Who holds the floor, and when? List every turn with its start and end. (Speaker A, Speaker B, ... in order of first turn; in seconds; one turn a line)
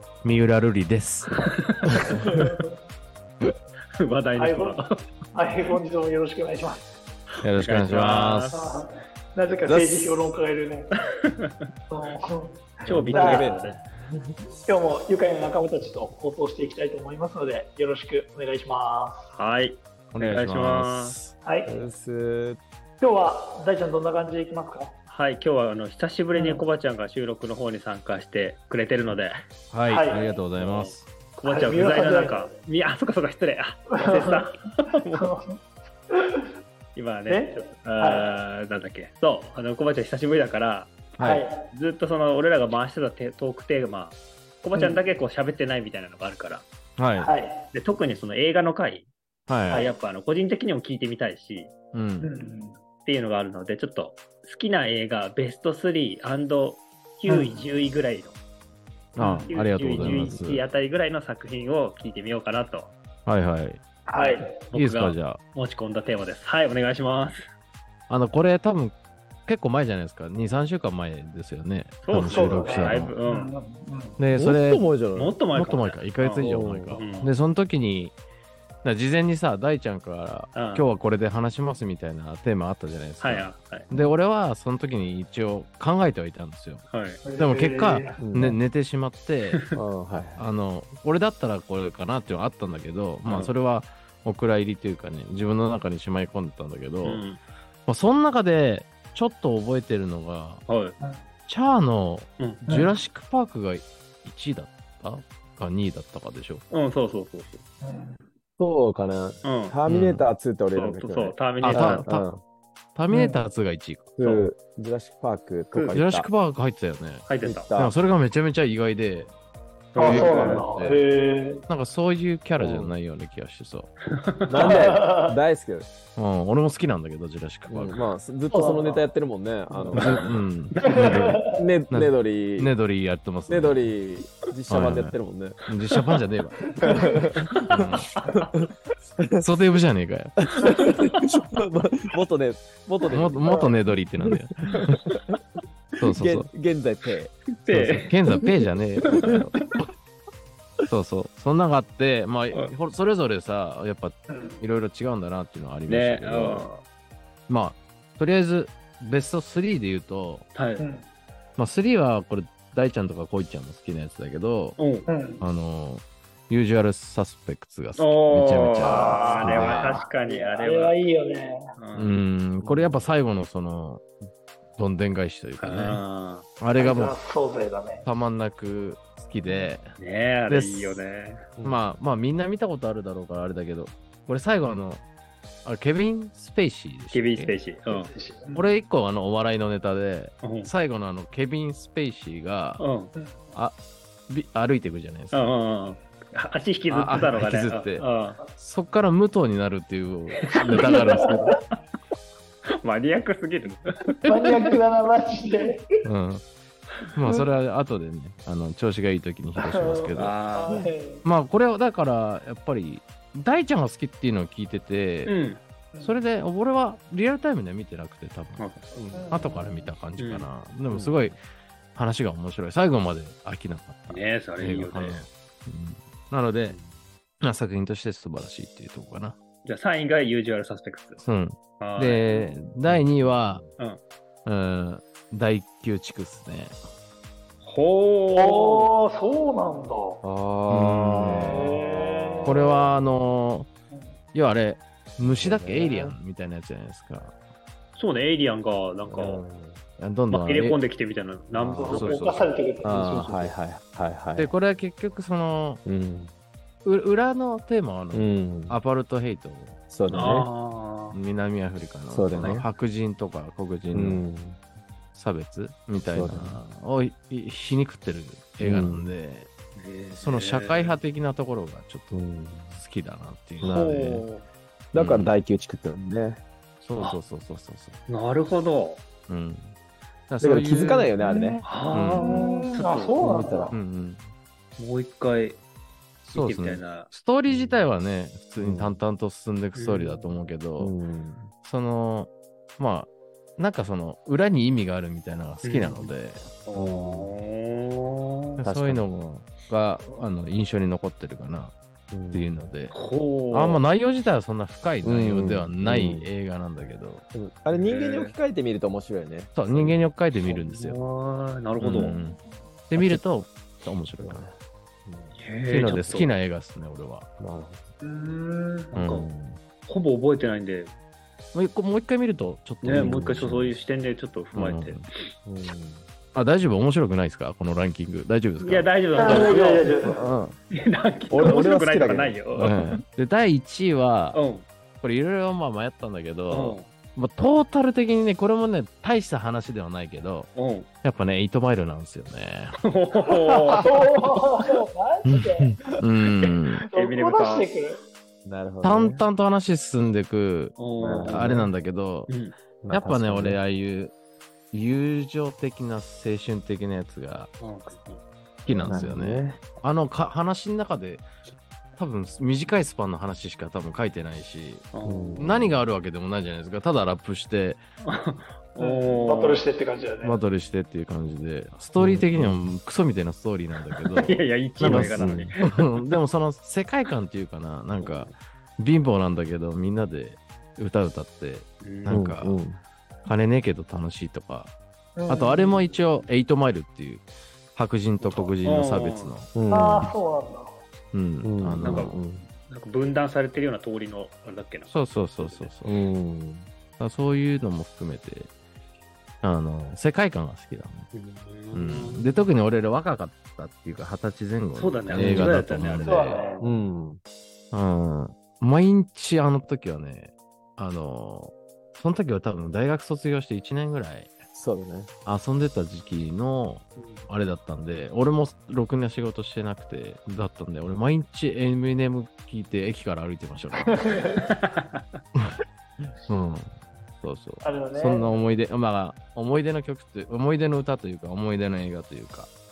Speaker A: 0.2-2.4
Speaker B: 1.3-2.1
Speaker C: 1.9-2.7
Speaker B: 4.0-4.9
Speaker C: 4.4-4.8
Speaker C: 5.3-6.9
Speaker A: 7.4-8.8
Speaker B: 7.5-8.6
Speaker C: 8.5-10.9
Speaker A: 9.7-10.3
Speaker C: 11.9-13.5
Speaker B: 12.8-13.8
Speaker D: 12.9-14.5
Speaker C: 14.7-19.3
Speaker B: 19.4-21.2
Speaker A: 20.1-21.4
Speaker C: 21.3-21.8
Speaker D: 21.7-22.6
Speaker C: 23.0-24.9
Speaker B: 25.1-29.4
Speaker C: 26.4-26.6
Speaker A: 29.7-31.1
Speaker C: 29.9-30.3
Speaker B: 30.5-35.3
Speaker C: 31.4-32.5
Speaker C: 33.9-34.5
Speaker C: 35.1-36.5
Speaker B: 37.0-41.1
Speaker C: 37.3-38.3
Speaker A: 41.2-41.5
Speaker C: 41.2-41.7
Speaker B: 41.6-46.7
Speaker C: 44.7-45.0
Speaker A: 47.0-47.3
Speaker C: 47.2-47.7
Speaker B: 47.7-49.1
Speaker A: 49.5-49.9
Speaker B: 49.7-51.8
Speaker A: 51.9-52.3
Speaker C: 52.2-52.8
Speaker B: 53.0-58.4
Speaker C: 57.3-57.7
Speaker A: 59.1-60.6
Speaker C: 59.2-59.5
Speaker B: 59.4-62.9
Speaker D: 60.0-60.4
Speaker A: 63.3-63.8
Speaker C: 64.1-64.7
Speaker B: 64.2-67.5
Speaker A: 64.7-65.4
Speaker A: 68.1-73.2
Speaker B: 72.0-73.5
Speaker C: 72.2-74.2
Speaker A: 74.2-74.9
Speaker D: 74.3-75.4
Speaker B: 75.1-77.3
Speaker A: 75.5-78.2
Speaker D: 76.4-77.0
Speaker A: 78.8-89.6
Speaker B: 80.5-80.9
Speaker B: 83.2-83.9
Speaker D: 83.9-84.2
Speaker B: 86.9-87.3
Speaker C: 87.2-88.6
Speaker D: 88.2-88.6
Speaker D: 89.7-90.5
Speaker A: 90.4-97.2
Speaker B: 93.2-93.5
Speaker B: 97.0-97.4
Speaker A: 97.9-100.7
Speaker B: 100.7-101.0
Speaker A: 101.5-106.6
Speaker B: 102.4-102.7
Speaker C: 102.7-102.9
Speaker B: 106.7-107.6
Speaker C: 107.8-108.2
Speaker D: 108.6-112.4
Speaker B: 109.4-109.8
Speaker A: 109.9-110.3
Speaker B: 110.7-112.0
Speaker A: 111.6-112.3
Speaker A: 113.0-114.3
Speaker C: 113.1-113.4
Speaker D: 114.2-116.3
Speaker A: 115.8-119.3
Speaker B: 117.2-117.7
Speaker D: 117.4-118.0
Speaker B: 120.0-120.5
Speaker A: 120.0-121.0
Speaker C: 120.0-121.6
Speaker D: 120.3-120.7
Speaker A: 121.7-123.9
Speaker D: 122.6-123.0
Speaker B: 124.1-124.8
Speaker D: 124.5-125.9
Speaker C: 124.6-125.4
Speaker A: 126.2-128.1
Speaker D: 127.7-130.4
Speaker C: 128.5-129.1
Speaker C: 129.7-130.1
Speaker A: 129.9-133.9
Speaker C: 130.8-131.6
Speaker D: 131.4-132.7
Speaker D: 133.5-135.6
Speaker A: 134.7-137.0
Speaker C: 136.8-137.1
Speaker D: 136.8-138.4
Speaker A: 137.7-138.1
Speaker A: 139.4-140.9
Speaker D: 140.6-143.7
Speaker A: 143.0-145.0
Speaker C: 143.4-143.8
Speaker D: 144.2-145.4
Speaker A: 146.0-146.5
Speaker D: 146.0-147.3
Speaker B: 147.6-148.1
Speaker A: 147.7-149.9
Speaker B: 149.0-149.8
Speaker A: 150.9-156.7
Speaker C: 154.3-154.6
Speaker B: 155.9-156.8
Speaker A: 157.5-160.5
Speaker B: 160.5-160.9
Speaker C: 160.8-161.1
Speaker A: 161.6-170.0
Speaker B: 164.8-165.1
Speaker C: 165.1-165.5
Speaker B: 168.0-171.0
Speaker C: 168.8-171.6
Speaker B: 171.8-172.2
Speaker A: 171.9-174.1
Speaker D: 172.6-173.1
Speaker A: 174.8-176.0
Speaker B: 175.6-176.5
Speaker A: 176.6-177.2
Speaker C: 176.8-178.1
Speaker A: 178.1-180.0
Speaker D: 179.4-179.7
Speaker B: 180.0-181.4
Speaker A: 180.5-181.0
Speaker D: 181.6-181.9
Speaker A: 181.6-185.0
Speaker A: 185.7-187.6
Speaker B: 187.1-188.1
Speaker C: 187.9-188.8
Speaker A: 188.5-193.0
Speaker B: 190.4-190.7
Speaker B: 192.8-193.1
Speaker C: 193.2-193.5
Speaker A: 194.3-195.5
Speaker B: 195.3-198.5
Speaker A: 196.9-201.6
Speaker B: 200.5-201.3
Speaker C: 200.7-201.6
Speaker B: 202.8-204.2
Speaker C: 204.2-205.9
Speaker A: 204.4-204.7
Speaker A: 206.0-206.5
Speaker A: 207.1-210.4
Speaker C: 209.6-211.2
Speaker B: 210.1-210.8
Speaker A: 211.2-215.3
Speaker B: 215.2-215.6
Speaker A: 216.0-218.6
Speaker B: 218.6-218.9
Speaker D: 218.9-219.4
Speaker C: 219.1-219.9
Speaker A: 219.3-221.4
Speaker B: 220.2-220.5
Speaker D: 220.9-221.2
Speaker A: 221.9-226.8
Speaker B: 224.1-225.2
Speaker D: 226.6-227.0
Speaker A: 227.4-229.4
Speaker B: 229.7-231.2
Speaker A: 231.2-233.7
Speaker B: 231.8-232.6
Speaker D: 232.9-233.7
Speaker B: 233.7-234.0
Speaker A: 234.5-236.8
Speaker B: 237.6-238.9
Speaker C: 238.3-240.2
Speaker D: 240.2-243.2
Speaker A: 240.7-241.7
Speaker C: 241.2-242.6
Speaker A: 242.4-243.7
Speaker C: 243.9-244.2
Speaker A: 244.3-247.4
Speaker D: 245.2-246.2
Speaker B: 248.0-249.4
Speaker D: 249.1-249.8
Speaker A: 250.0-250.8
Speaker B: 250.3-253.6
Speaker A: 251.5-252.5
Speaker D: 251.7-252.1
Speaker C: 251.7-253.1
Speaker D: 252.8-254.5
Speaker A: 254.4-255.8
Speaker D: 255.8-256.3
Speaker A: 256.9-260.5
Speaker D: 258.1-258.8
Speaker D: 259.9-260.5
Speaker B: 260.1-261.2
Speaker A: 261.1-264.2
Speaker D: 262.1-262.7
Speaker D: 263.9-264.6
Speaker A: 265.1-269.5
Speaker D: 266.1-266.6
Speaker D: 268.6-269.1
Speaker B: 269.8-271.0
Speaker A: 270.2-272.2
Speaker D: 272.1-272.8
Speaker A: 272.7-273.8
Speaker B: 273.6-274.5
Speaker D: 273.6-274.2
Speaker D: 274.9-276.4
Speaker A: 274.9-275.3
Speaker A: 276.8-278.0
Speaker B: 278.1-279.0
Speaker A: 279.3-279.8
Speaker A: 280.3-281.2
Speaker D: 280.4-281.6
Speaker C: 281.2-283.8
Speaker B: 281.6-283.3
Speaker A: 281.9-282.6
Speaker D: 283.2-283.7
Speaker A: 283.7-284.3
Speaker B: 284.8-285.6
Speaker B: 286.2-287.1
Speaker A: 286.3-290.9
Speaker D: 287.5-287.8
Speaker D: 288.6-289.0
Speaker B: 289.7-290.3
Speaker D: 290.8-291.5
Speaker A: 291.6-296.5
Speaker B: 295.6-296.1
Speaker B: 296.6-298.6
Speaker D: 296.7-297.3
Speaker A: 298.6-301.8
Speaker D: 298.6-299.1
Speaker D: 302.1-302.5
Speaker A: 302.3-302.9
Speaker B: 302.9-303.8
Speaker A: 303.5-307.2
Speaker D: 305.0-306.3
Speaker D: 307.3-310.0
Speaker B: 307.7-308.4
Speaker A: 309.6-311.0
Speaker B: 310.4-312.2
Speaker A: 311.8-314.5
Speaker D: 313.0-313.2
Speaker D: 314.2-314.5
Speaker D: 315.1-315.4
Speaker B: 315.4-316.3
Speaker A: 315.7-317.3
Speaker D: 315.9-316.2
Speaker D: 317.4-317.9
Speaker C: 318.0-318.9
Speaker B: 318.9-319.3
Speaker A: 318.9-319.3
Speaker D: 319.1-319.6
Speaker B: 319.8-320.9
Speaker A: 321.5-323.8
Speaker B: 322.8-325.2
Speaker D: 322.9-323.6
Speaker A: 324.5-325.1
Speaker D: 325.4-326.1
Speaker A: 326.3-330.6
Speaker B: 328.6-330.0
Speaker C: 329.1-330.4
Speaker B: 330.7-332.9
Speaker D: 331.3-332.4
Speaker A: 332.6-334.4
Speaker B: 334.3-334.7
Speaker A: 335.0-340.5
Speaker B: 336.5-336.9
Speaker B: 340.5-340.9
Speaker A: 341.0-342.8
Speaker B: 342.8-343.9
Speaker C: 343.7-345.8
Speaker A: 345.2-346.9
Speaker C: 346.9-348.0
Speaker B: 346.9-347.7
Speaker D: 348.4-349.3
Speaker A: 348.8-352.3
Speaker B: 350.8-351.6
Speaker C: 351.0-351.3
Speaker D: 351.0-351.7
Speaker B: 352.3-352.6
Speaker D: 352.8-353.6
Speaker A: 352.9-354.1
Speaker A: 354.7-357.5
Speaker B: 357.6-358.2
Speaker A: 358.6-361.3
Speaker D: 358.8-359.6
Speaker A: 362.0-367.8
Speaker B: 364.9-365.4
Speaker D: 365.0-365.9
Speaker B: 368.0-369.6
Speaker C: 368.8-370.4
Speaker A: 370.2-382.6
Speaker D: 372.0-372.7
Speaker B: 373.9-376.2
Speaker D: 374.8-375.5
Speaker B: 378.0-378.4
Speaker B: 381.8-382.2
Speaker D: 382.1-382.8
Speaker A: 383.2-384.8
Speaker C: 385.2-385.8
Speaker A: 385.3-390.1
Speaker B: 388.4-389.4
Speaker D: 389.6-390.1
Speaker C: 389.7-390.8
Speaker A: 391.1-392.2
Speaker D: 391.4-392.5
Speaker B: 391.8-395.7
Speaker A: 394.9-395.9
Speaker D: 395.9-396.7
Speaker A: 397.0-398.5
Speaker A: 399.4-401.1
Speaker B: 401.1-402.5
Speaker A: 401.7-406.4
Speaker B: 404.8-406.7
Speaker D: 405.1-405.6
Speaker C: 406.0-406.8
Speaker D: 406.6-407.2
Speaker A: 407.7-414.4
Speaker D: 414.5-415.1
Speaker A: 415.2-424.3
Speaker B: 417.0-417.3
Speaker C: 423.9-424.4
Speaker B: 424.4-425.0
Speaker A: 426.3-432.5
Speaker C: 427.6-428.3